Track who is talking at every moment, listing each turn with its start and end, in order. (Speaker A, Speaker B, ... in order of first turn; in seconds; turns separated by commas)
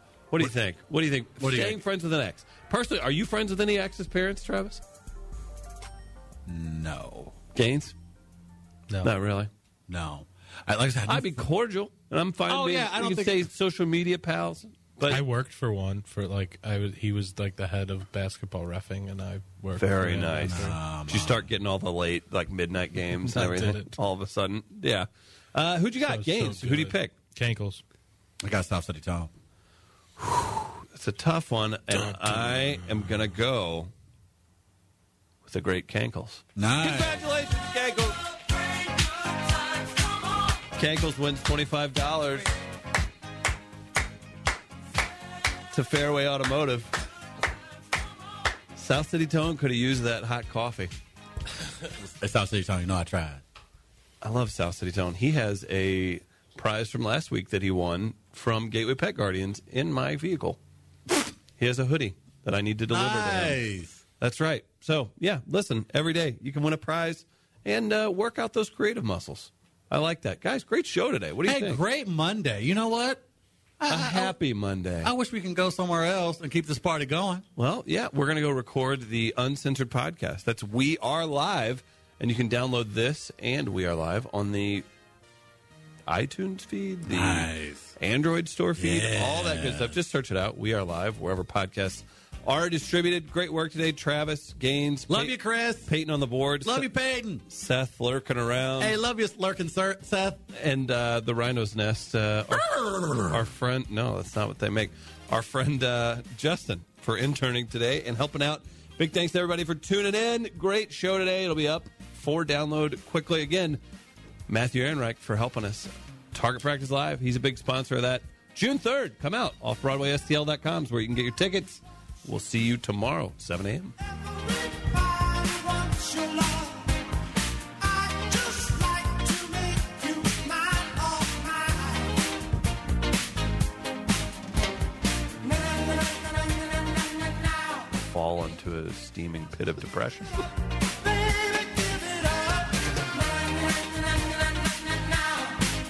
Speaker A: 0.3-4.8, Speaker B: 1.4-1.8, Speaker B: 6.5-7.3, Speaker A: 7.5-8.0, Speaker A: 9.0-9.5, Speaker B: 9.9-11.5, Speaker A: 11.1-15.2, Speaker B: 12.5-13.5, Speaker C: 15.1-20.8, Speaker A: 19.8-27.1, Speaker B: 20.4-21.5, Speaker C: 23.2-23.9, Speaker C: 26.1-27.8, Speaker B: 28.4-29.3, Speaker A: 30.2-33.9, Speaker C: 31.9-32.9, Speaker A: 35.5-40.0, Speaker B: 36.6-37.2, Speaker A: 40.6-42.5, Speaker A: 45.7-47.0, Speaker A: 48.8-50.9, Speaker B: 51.9-53.4, Speaker A: 54.2-60.6, Speaker A: 61.6-63.6, Speaker B: 62.9-64.0, Speaker A: 64.2-71.8, Speaker B: 71.5-73.2, Speaker B: 73.8-74.4, Speaker A: 73.9-75.1, Speaker B: 75.0-77.4, Speaker A: 77.6-84.8, Speaker A: 86.1-96.9, Speaker B: 87.1-87.9, Speaker B: 88.8-90.0, Speaker B: 95.1-95.9, Speaker B: 96.6-97.4, Speaker A: 97.5-99.0, Speaker B: 98.8-100.4, Speaker A: 100.5-102.7, Speaker B: 102.5-103.5, Speaker A: 103.2-113.8, Speaker A: 114.5-124.0, Speaker A: 137.9-140.5